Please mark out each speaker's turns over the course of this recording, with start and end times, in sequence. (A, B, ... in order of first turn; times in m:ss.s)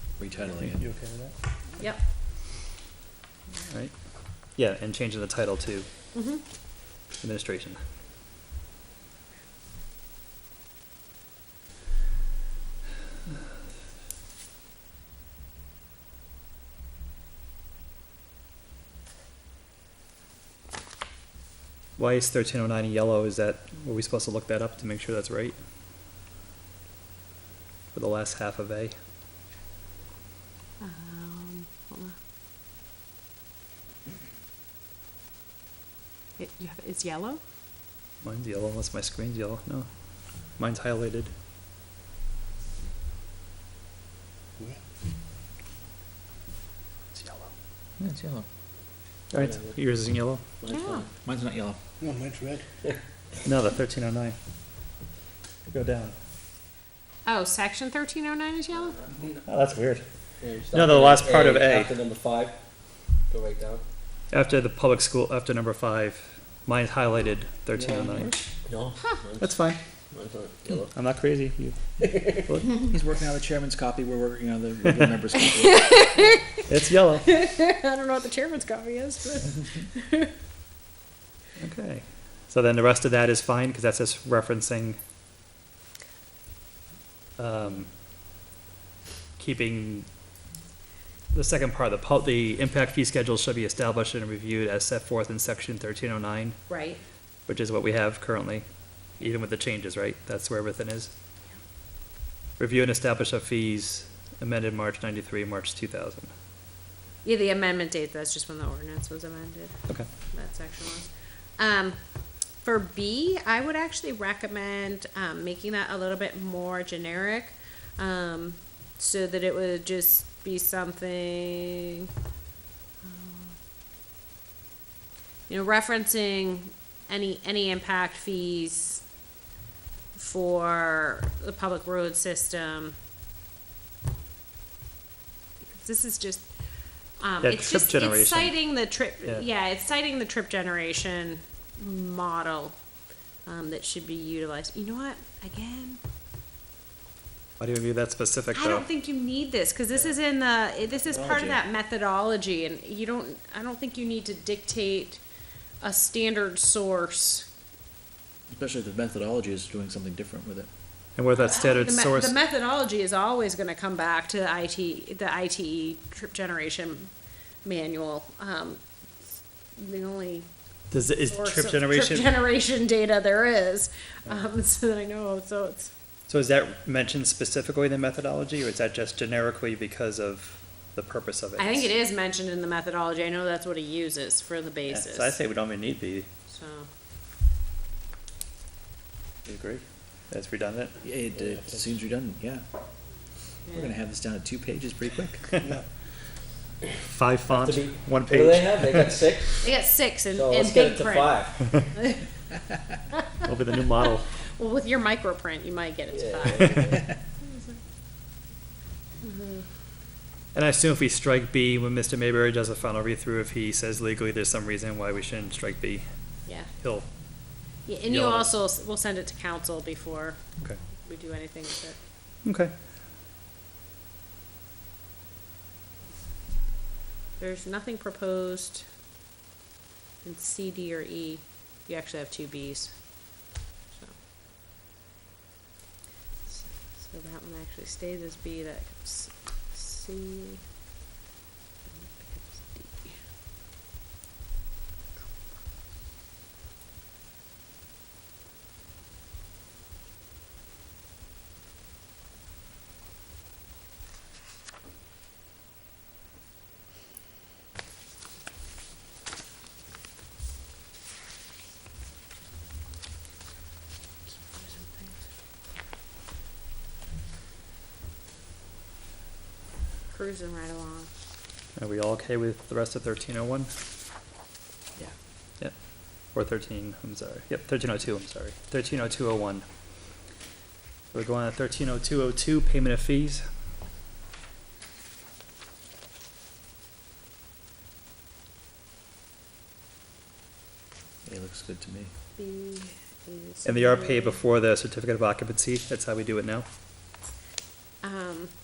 0:00.2-0:00.8 A
0:00.7-0:01.3 B
0:03.7-0:03.9 B
0:04.6-0:05.9 B
0:06.1-0:06.4 C
0:07.2-0:07.8 B
0:22.0-0:25.5 B
0:27.9-0:28.9 B
0:30.8-0:32.2 C
0:36.4-0:37.4 C
0:38.2-0:39.9 B
0:40.6-0:41.3 B
0:47.1-0:47.5 B
0:48.0-0:48.4 A
0:49.3-0:50.4 B
0:49.3-0:49.8 D
0:50.6-0:51.1 D
0:50.7-0:51.1 C
0:51.2-0:51.8 A
0:53.4-0:54.4 B
0:55.7-0:56.1 B
0:57.2-0:59.1 C
0:59.4-1:00.0 B
1:00.4-1:02.5 D
1:00.7-1:01.9 B
1:03.3-1:03.8 D
1:04.3-1:08.4 B
1:07.7-1:09.5 D
1:09.4-1:09.8 B
1:10.1-1:10.9 D
1:10.9-1:11.8 B
1:12.0-1:12.4 D
1:12.4-1:12.8 B
1:12.8-1:15.9 A
1:15.4-1:20.3 C
1:16.6-1:17.3 B
1:21.6-1:25.0 B
1:27.4-1:27.9 B
1:29.4-1:30.0 B
1:31.3-1:36.6 B
1:36.7-1:37.0 C
1:37.5-1:38.6 B
1:39.2-1:41.1 B
1:42.6-1:46.3 B
1:47.2-1:49.8 C
1:50.3-1:52.0 C
1:52.6-2:02.1 C
2:03.0-2:03.6 C
2:05.5-2:09.0 C
2:10.1-2:12.9 C
2:15.7-2:16.4 C
2:17.2-2:22.7 C
2:17.4-2:18.6 B
2:23.4-2:26.0 C
2:27.6-2:28.8 B
2:28.5-2:35.2 C
2:31.1-2:31.6 A
2:35.8-2:37.5 C
2:38.5-2:40.7 A
2:41.2-2:42.4 B
2:41.3-2:47.1 C
2:47.6-2:48.8 C
2:49.7-2:50.5 C
2:50.9-2:52.3 B
2:51.2-2:55.9 C
2:56.3-3:01.9 B
3:01.6-3:05.4 C
3:04.9-3:06.3 B
3:06.5-3:06.9 C
3:09.4-3:10.9 B
3:11.0-3:12.6 A
3:11.4-3:11.9 D
3:13.7-3:15.5 A
3:17.0-3:19.1 B
3:17.5-3:19.6 D
3:19.6-3:22.2 C
3:20.3-3:21.7 D
3:23.4-3:24.3 B
3:24.5-3:27.6 C
3:26.1-3:27.1 D
3:29.2-3:29.6 C
3:30.5-3:36.0 B
3:36.8-3:37.0 B
3:37.8-3:40.4 C
3:38.1-3:38.5 B
3:41.0-3:42.0 C
3:42.4-3:42.7 B
3:47.4-3:48.9 C
3:50.2-3:53.0 C
3:56.4-4:00.6 C
4:01.9-4:03.2 C
4:24.5-4:25.1 C
4:30.1-4:31.1 C
4:31.8-4:33.7 B
4:36.2-4:39.6 B
4:41.1-4:43.4 B
4:51.2-4:52.1 A
4:52.4-4:54.4 C
4:53.6-4:56.6 B
4:58.0-4:58.5 C